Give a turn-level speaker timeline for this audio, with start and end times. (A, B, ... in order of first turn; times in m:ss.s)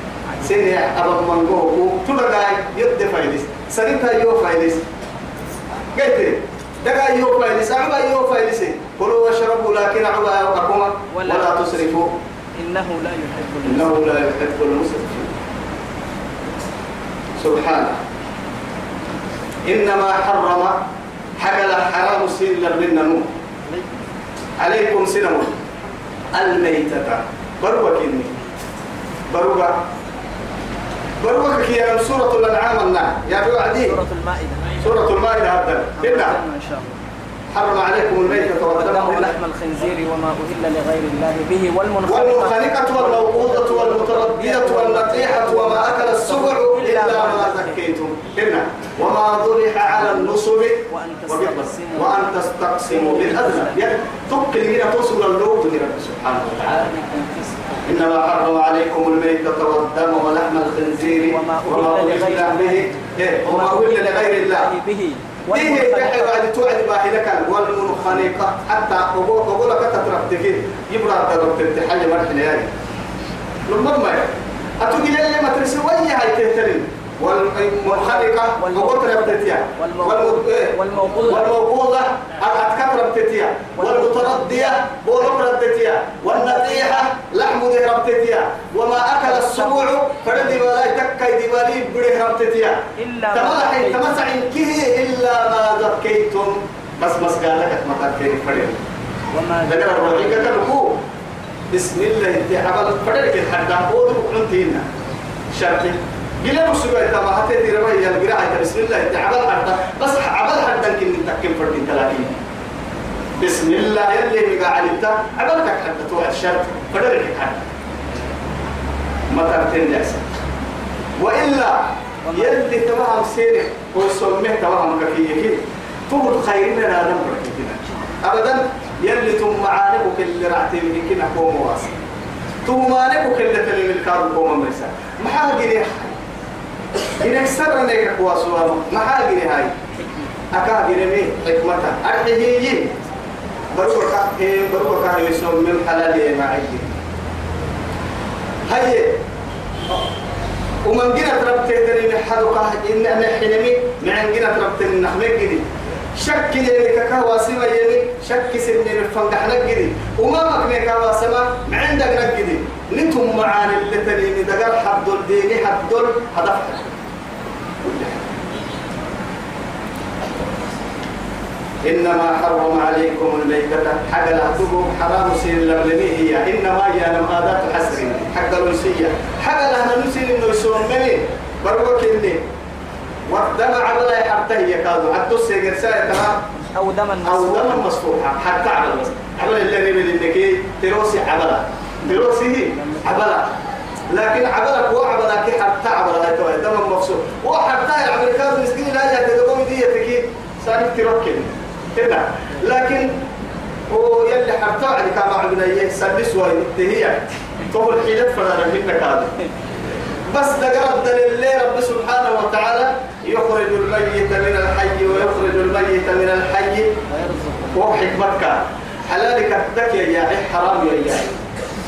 0:00.4-0:04.9 A
0:05.9-0:12.1 A
0:11.1-0:11.5 B
0:12.5-0:14.0 B
0:13.6-0:15.3 A
0:17.4-0:18.0 A
0:19.6-0:20.8 A
0:21.4-0:23.3 A
0:24.6-0:25.6 A
0:26.3-0:28.4 A
0:29.3-0:29.8 A
0:31.2-0:34.0 A
0:33.8-0:34.8 B
0:34.8-0:36.4 A
0:36.0-0:37.0 B
0:37.5-0:39.4 A
0:38.2-0:47.8 B
0:42.0-0:56.9 A
0:50.0-0:52.4 B
0:52.9-0:53.8 B
0:56.6-0:57.8 B
0:57.8-1:04.7 A
1:01.2-1:06.5 B
1:05.5-1:12.7 A
1:13.7-1:38.8 A
1:17.9-1:21.5 B
1:23.8-1:24.8 B
1:26.3-1:27.0 B
1:29.2-1:29.9 B
1:33.0-1:34.2 B
1:39.3-1:40.6 B
1:39.6-1:41.0 A
1:41.7-1:44.8 A
1:45.5-1:52.3 A
1:53.4-1:57.7 A
1:59.3-2:00.2 A
2:01.2-2:12.0 A
2:02.2-2:02.6 B
2:12.6-2:16.2 A
2:17.2-2:19.7 A
2:20.5-2:22.9 A
2:23.7-2:27.0 A
2:28.7-2:29.2 A
2:30.8-2:47.0 A
2:47.8-2:48.3 A
2:51.8-3:02.4 A
3:03.3-3:06.4 A
3:06.7-3:07.9 B
3:07.2-3:13.6 A
3:12.7-3:13.2 B
3:14.1-3:23.2 A
3:23.9-3:29.3 A
3:30.3-3:36.9 A
3:37.1-3:37.8 B
3:37.7-3:41.4 A